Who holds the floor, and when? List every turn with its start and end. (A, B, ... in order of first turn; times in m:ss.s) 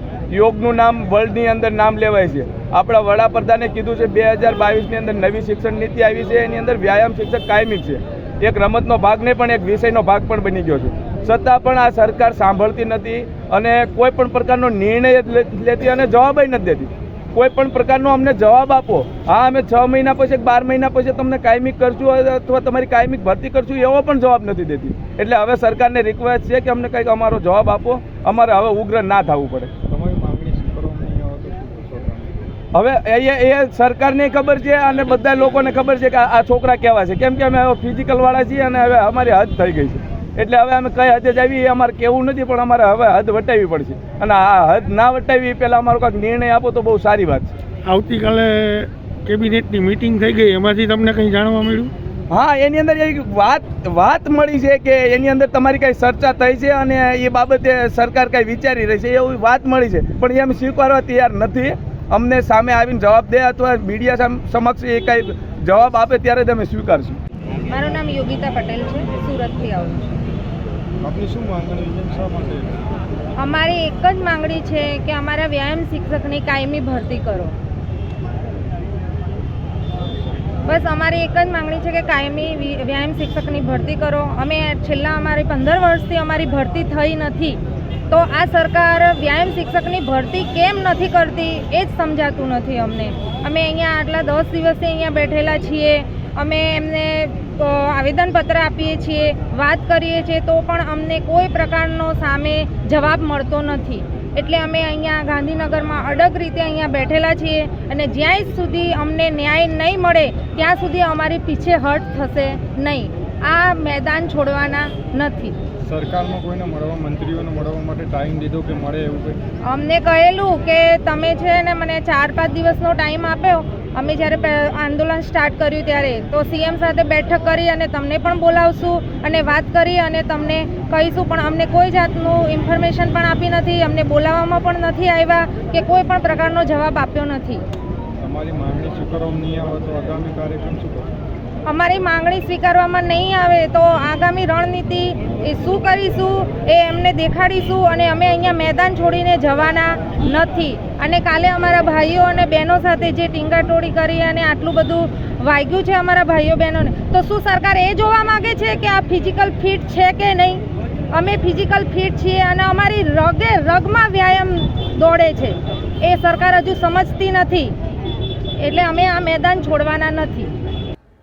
0:00.3-0:29.7 A
0:29.9-0:32.5 B
0:32.7-0:47.5 A
0:47.8-0:51.9 C
0:52.3-1:07.2 A
1:07.7-1:10.1 D
1:11.0-1:12.8 B
1:13.4-1:17.6 D
1:20.7-1:27.6 D
1:28.1-1:55.6 D
1:55.8-1:59.4 B
1:59.6-2:17.6 D
2:18.2-2:21.1 B
2:21.6-2:47.8 D
2:48.6-2:50.5 D